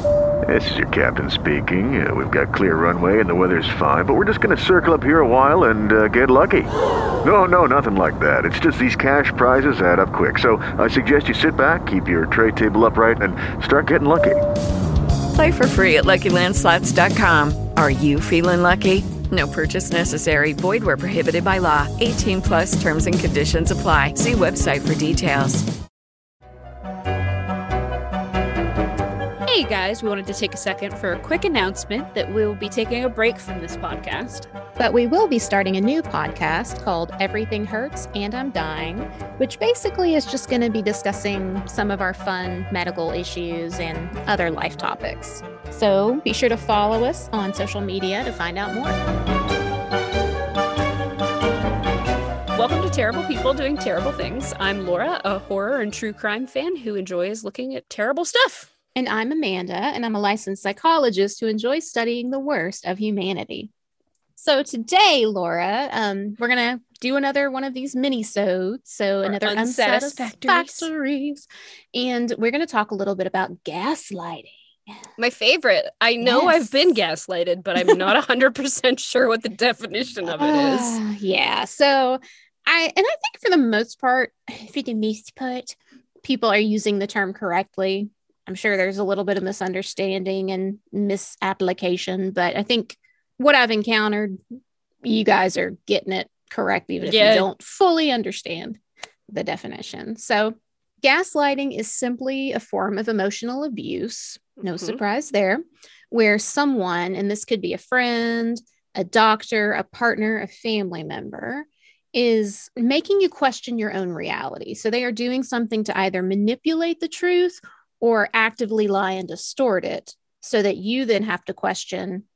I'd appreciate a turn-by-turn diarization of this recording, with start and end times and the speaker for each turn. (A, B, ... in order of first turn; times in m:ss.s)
0:00.5-0:06.7 A
0:07.2-0:14.4 A
0:15.3-0:25.6 B
0:29.4-0:34.5 C
0:34.8-0:49.0 D
0:52.5-0:58.7 C
0:58.9-1:03.7 D
1:04.4-1:14.6 D
1:09.2-1:10.9 C
1:15.2-1:21.0 C
1:16.2-1:17.0 D
1:17.8-1:18.1 D
1:20.3-1:34.4 D
1:35.0-2:02.2 D
1:37.0-1:37.5 C